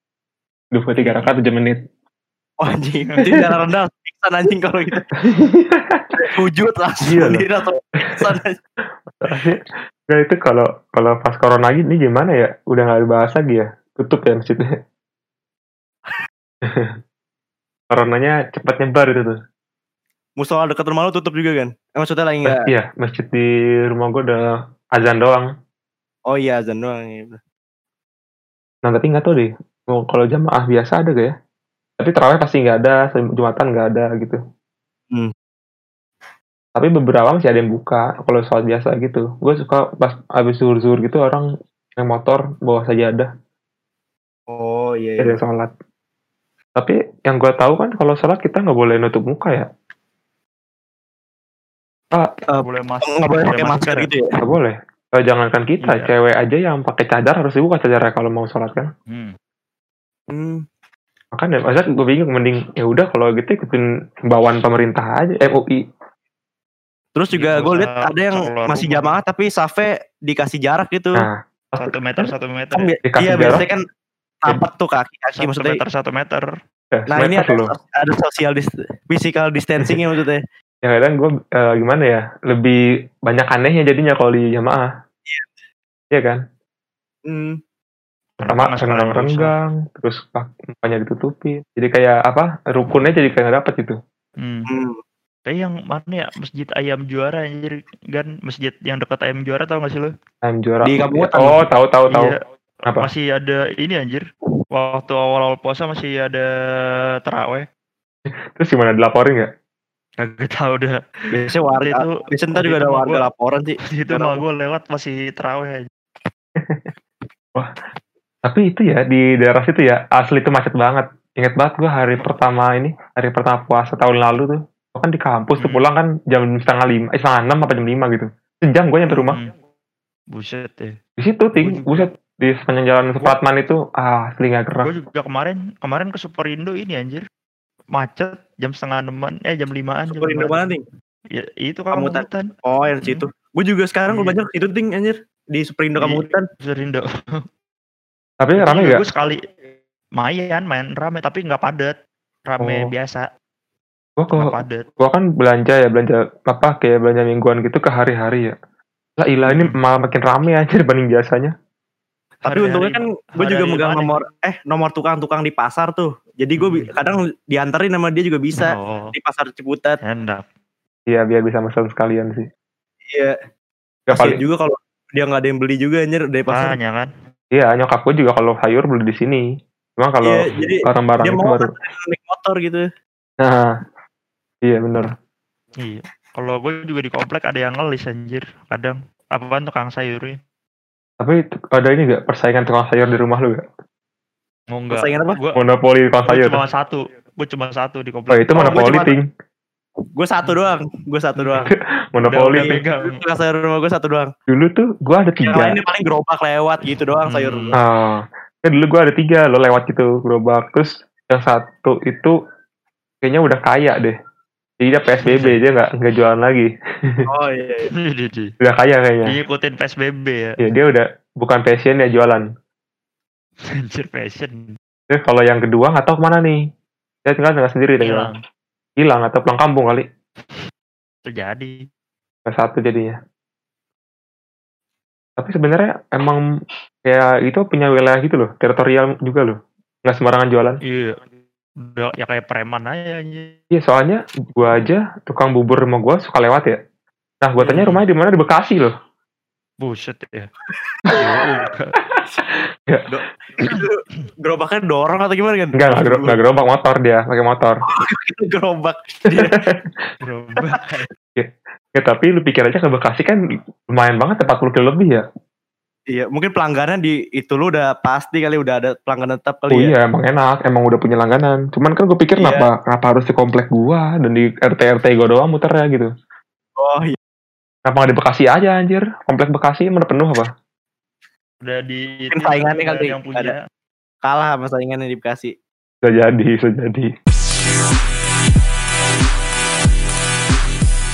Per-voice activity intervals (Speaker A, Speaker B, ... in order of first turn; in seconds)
Speaker A: 0.7-1.8, 5.2-6.2, 7.0-7.5, 9.2-14.7, 16.6-16.9, 17.9-19.4, 22.4-24.4, 24.9-25.5, 28.8-31.3, 32.0-34.4, 36.8-43.3, 45.2-45.7, 46.8-49.7, 54.4-58.9, 61.3-65.8, 71.2-72.3, 73.0-73.7, 76.9-77.7, 80.8-82.8, 83.3-84.9, 86.1-86.4, 88.5-94.0, 100.4-102.3, 102.9-103.1, 108.5-109.5, 118.5-129.4, 131.2-134.9, 148.4-149.0, 152.6-152.9, 154.2-158.5, 159.2-161.5, 171.1-172.5, 174.1-174.4, 177.5-179.4, 180.0-181.8, 183.4-183.7, 184.7-185.1, 191.2-193.6, 195.6-196.6, 198.3-199.3, 201.7-202.8, 204.5-205.8, 207.8-212.3, 213.2-214.1, 214.8-217.3, 218.6-219.4, 220.6-222.5, 225.1-226.6, 227.2-228.3, 229.0-230.0, 232.5-233.2, 235.4-236.4, 237.1-240.8, 243.7-246.8, 247.4-248.9, 255.7-257.8, 259.4-259.8, 261.4-263.4, 263.9-265.2, 269.7-276.1, 277.9-280.5, 286.0-287.1
Speaker B: 1.0-1.3, 2.6-5.1, 6.2-8.6, 20.4-22.7, 26.3-27.4, 44.5-45.4, 52.5-54.3, 60.3-60.6, 67.2-71.3, 72.8-73.8, 74.4-75.8, 77.1-80.4, 87.3-87.6, 94.7-95.0, 100.8-101.7, 111.3-114.4, 140.1-140.8, 141.9-146.4, 162.5-170.0, 174.1-176.8, 180.2-182.8, 194.9-195.4, 198.6-199.2, 200.2-201.7, 202.5-204.3, 205.5-207.7, 217.3-217.9, 250.8-251.1, 253.1-256.4, 257.9-259.6, 266.1-269.9, 272.4-272.7, 276.8-277.2, 282.3-283.6, 284.2-285.5
Speaker C: 52.6-54.1, 55.8-56.1, 59.1-59.3, 67.3-69.2, 71.8-72.9, 75.3-76.5, 88.4-89.5, 94.4-94.7, 95.5-100.1, 102.1-102.4, 102.9-106.5, 107.2-107.7, 110.2-111.0, 111.7-113.3, 113.8-115.9, 125.6-125.8, 129.1-129.5, 130.3-130.9, 131.6-132.1, 134.8-137.2, 137.9-140.5, 141.4-142.5, 144.1-144.4, 146.0-147.4, 148.6-149.4, 150.2-151.9, 152.5-153.2, 154.3-154.8, 159.5-159.8, 162.4-164.2, 166.6-167.1, 168.6-169.1, 170.0-170.4, 176.5-177.1, 185.8-190.3, 194.7-195.6, 196.3-198.8, 201.4-201.7, 202.2-203.2, 207.3-207.8, 215.3-215.6, 218.0-218.5, 219.3-220.5, 223.8-224.8, 228.0-228.4, 231.2-231.8, 240.8-241.2, 241.8-243.5, 247.6-248.0, 249.8-250.5, 251.2-251.9, 260.2-261.1, 281.6-283.6